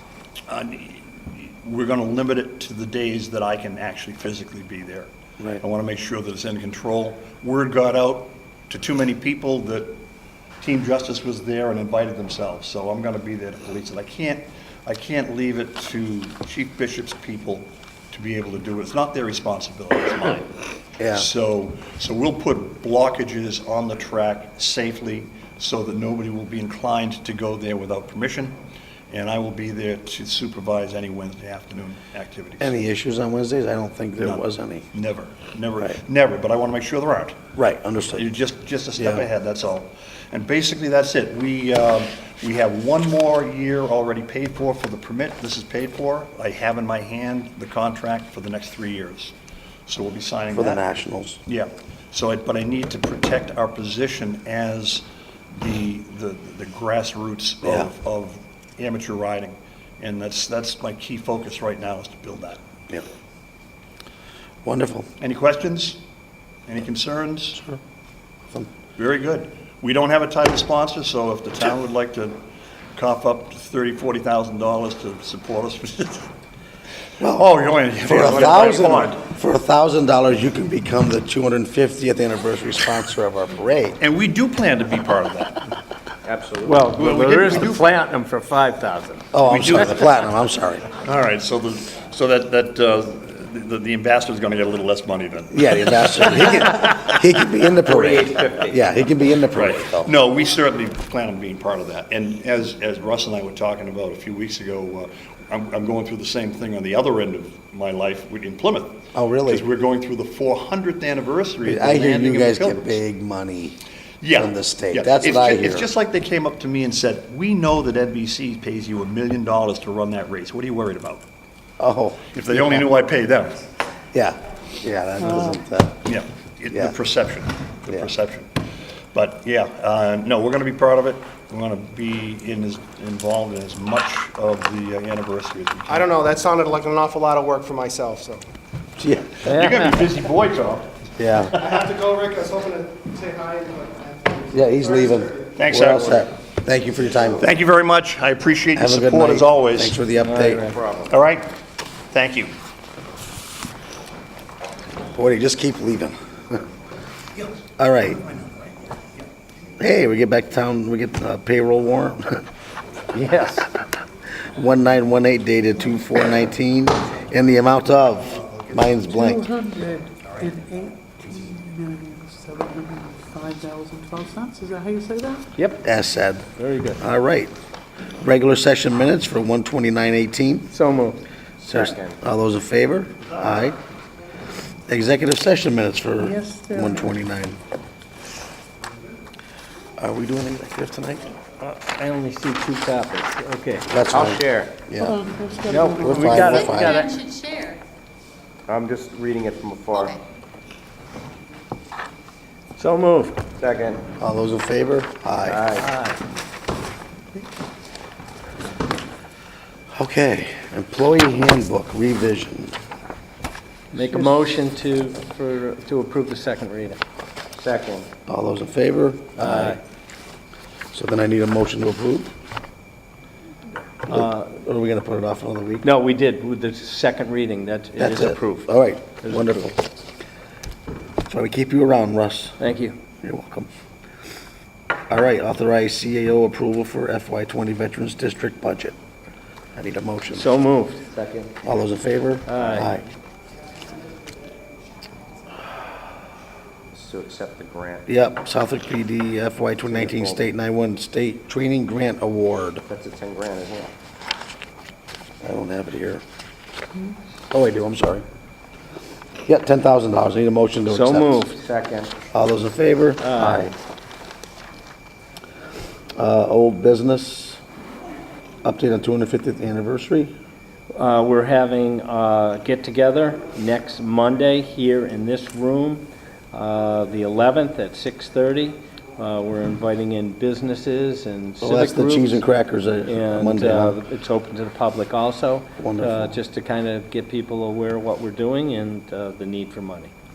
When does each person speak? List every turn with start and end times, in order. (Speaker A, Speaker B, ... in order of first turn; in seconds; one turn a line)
Speaker A: 0.5-5.1
Speaker A: 5.6-10.0
Speaker A: 10.6-20.5
Speaker B: 21.0-21.3
Speaker A: 21.1-28.6
Speaker A: 29.1-32.9
Speaker B: 32.6-34.9
Speaker A: 34.2-37.4
Speaker B: 37.6-38.2
Speaker A: 38.1-49.3
Speaker B: 39.0-39.2
Speaker A: 49.9-50.8
Speaker B: 50.5-51.4
Speaker A: 51.5-62.6
Speaker B: 57.6-57.9
Speaker B: 64.7-65.1
Speaker A: 65.2-66.0
Speaker A: 66.7-67.6
Speaker A: 69.0-72.4
Speaker A: 73.0-76.3
Speaker B: 77.2-77.5
Speaker A: 77.2-79.2
Speaker B: 78.0-84.0
Speaker A: 84.0-85.7
Speaker C: 86.2-86.9
Speaker D: 86.6-89.3
Speaker A: 87.0-87.8
Speaker B: 89.3-90.9
Speaker A: 89.4-90.0
Speaker A: 90.9-96.6
Speaker B: 95.5-100.1
Speaker C: 97.8-98.8
Speaker A: 99.5-113.0
Speaker B: 109.1-109.7
Speaker B: 111.6-113.8
Speaker A: 114.2-121.2
Speaker B: 114.3-115.9
Speaker B: 121.8-122.9
Speaker A: 122.3-123.6
Speaker B: 124.1-126.0
Speaker A: 126.0-128.6
Speaker B: 126.7-127.0
Speaker A: 129.1-136.1
Speaker E: 135.9-138.4
Speaker B: 139.0-139.4
Speaker A: 139.4-140.9
Speaker D: 139.5-140.0
Speaker B: 141.2-141.6
Speaker E: 141.6-145.5
Speaker B: 144.5-147.5
Speaker A: 145.6-146.3
Speaker A: 147.3-150.0
Speaker B: 148.7-150.7
Speaker D: 150.2-150.8
Speaker C: 150.7-151.1
Speaker A: 151.1-151.6
Speaker A: 152.1-152.5
Speaker B: 155.1-156.7
Speaker B: 157.8-158.2
Speaker B: 159.8-162.4
Speaker D: 163.1-163.7
Speaker B: 164.5-169.5
Speaker F: 169.1-175.4
Speaker D: 175.6-175.8
Speaker B: 175.8-176.5
Speaker D: 176.6-177.0
Speaker B: 177.0-177.5
Speaker B: 178.2-180.7
Speaker D: 180.7-181.2
Speaker B: 181.6-183.8
Speaker C: 181.7-182.2
Speaker B: 184.9-187.6
Speaker F: 186.2-187.1
Speaker B: 190.0-191.4
Speaker D: 191.6-193.9
Speaker B: 193.9-195.2
Speaker C: 194.1-194.8
Speaker F: 195.0-196.5
Speaker D: 195.7-197.3
Speaker B: 195.8-197.1
Speaker C: 198.7-200.2
Speaker D: 202.8-203.4
Speaker C: 203.6-204.0
Speaker B: 204.2-205.7
Speaker C: 205.4-205.9
Speaker D: 205.8-206.2
Speaker B: 209.9-212.8
Speaker D: 213.9-217.0
Speaker C: 217.6-218.1
Speaker B: 218.3-219.8
Speaker D: 219.4-219.8
Speaker B: 220.9-222.3
Speaker B: 224.1-225.9
Speaker D: 224.1-224.4
Speaker D: 225.8-228.7
Speaker B: 228.0-229.8
Speaker D: 229.2-229.7
Speaker B: 231.3-232.6
Speaker D: 232.6-233.0
Speaker B: 233.2-233.7
Speaker B: 235.1-238.9
Speaker B: 239.8-240.5
Speaker D: 240.3-241.1
Speaker C: 241.1-241.6
Speaker B: 241.6-243.0
Speaker D: 242.5-242.9
Speaker C: 246.9-248.1
Speaker B: 248.1-252.8
Speaker C: 249.8-250.5
Speaker C: 252.9-253.9
Speaker B: 255.4-256.2
Speaker B: 257.5-258.2
Speaker B: 259.5-261.4
Speaker D: 260.9-261.6
Speaker C: 261.5-262.1
Speaker B: 262.3-263.7
Speaker D: 263.2-263.7
Speaker B: 266.2-267.6
Speaker B: 268.6-270.3
Speaker D: 270.9-282.4
Speaker B: 281.6-284.0
Speaker D: 283.0-290.1
Speaker B: 285.8-286.4